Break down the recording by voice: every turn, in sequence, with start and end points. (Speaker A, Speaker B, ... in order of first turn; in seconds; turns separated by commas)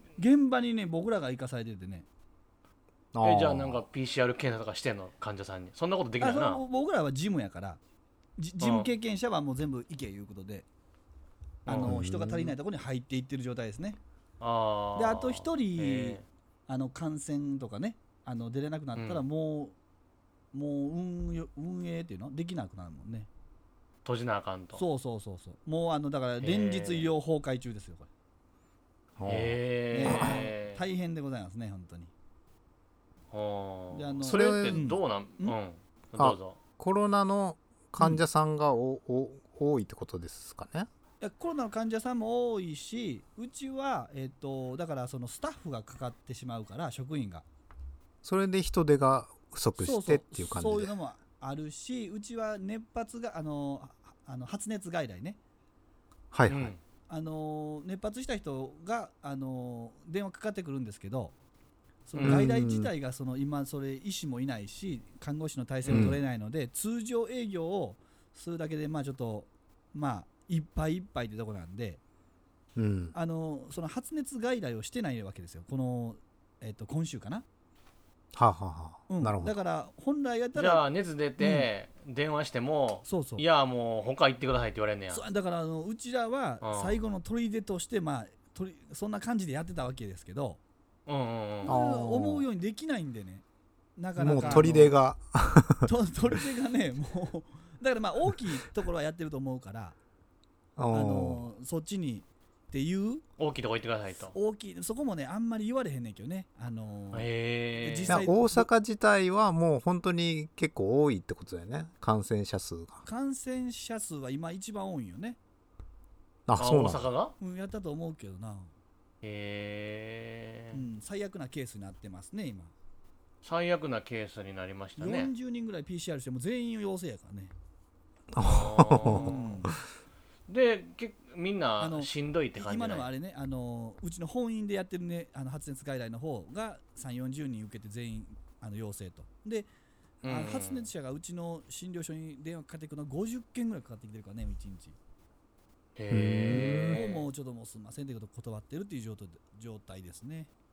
Speaker A: 0.2-2.0, Speaker B: 3.1-3.8, Speaker C: 3.2-6.6, Speaker A: 6.2-7.8, Speaker A: 8.4-10.7, Speaker C: 8.6-8.9, Speaker C: 11.7-12.0, Speaker A: 11.7-14.0, Speaker B: 11.8-12.5, Speaker C: 14.4-16.2, Speaker A: 14.9-19.7, Speaker C: 18.9-19.2, Speaker A: 20.5-23.3, Speaker C: 24.0-24.8, Speaker A: 24.7-28.1, Speaker C: 26.4-27.1, Speaker B: 29.2-30.4, Speaker C: 29.2-30.8, Speaker A: 29.9-32.1, Speaker C: 33.3-36.6, Speaker A: 33.9-35.5, Speaker B: 34.2-34.8, Speaker B: 36.2-40.9, Speaker A: 41.2-47.4, Speaker B: 48.2-50.9, Speaker A: 49.8-55.4, Speaker B: 56.3-56.7, Speaker C: 56.5-56.8, Speaker A: 57.1-61.3, Speaker A: 62.0-72.0, Speaker C: 62.1-62.5, Speaker B: 62.2-62.9, Speaker C: 65.8-66.2, Speaker B: 65.9-66.2, Speaker B: 72.8-73.1, Speaker A: 73.1-77.4, Speaker B: 78.3-79.5, Speaker A: 79.1-80.8, Speaker C: 80.5-85.2, Speaker A: 81.4-81.7, Speaker A: 83.0-83.4, Speaker A: 85.1-90.6, Speaker C: 86.6-87.0, Speaker C: 91.0-91.7, Speaker A: 91.6-93.4, Speaker B: 91.7-92.4, Speaker A: 94.0-94.9, Speaker B: 94.2-95.9, Speaker C: 94.4-94.7, Speaker A: 95.8-100.0, Speaker B: 100.8-101.5, Speaker A: 100.9-103.2, Speaker C: 103.4-104.3, Speaker A: 104.3-108.7, Speaker C: 107.1-108.2, Speaker B: 108.1-113.0, Speaker A: 113.0-115.4, Speaker B: 116.5-117.1, Speaker C: 116.6-117.3, Speaker A: 117.4-118.7, Speaker C: 119.2-120.8, Speaker A: 120.7-122.7, Speaker C: 123.4-125.3, Speaker A: 125.0-127.5, Speaker B: 128.3-129.3, Speaker C: 128.4-129.6, Speaker A: 129.0-129.7, Speaker C: 130.5-133.1, Speaker A: 131.8-139.7, Speaker C: 140.2-140.9, Speaker A: 140.2-145.0, Speaker C: 145.9-147.2, Speaker B: 146.1-147.0, Speaker A: 146.5-150.5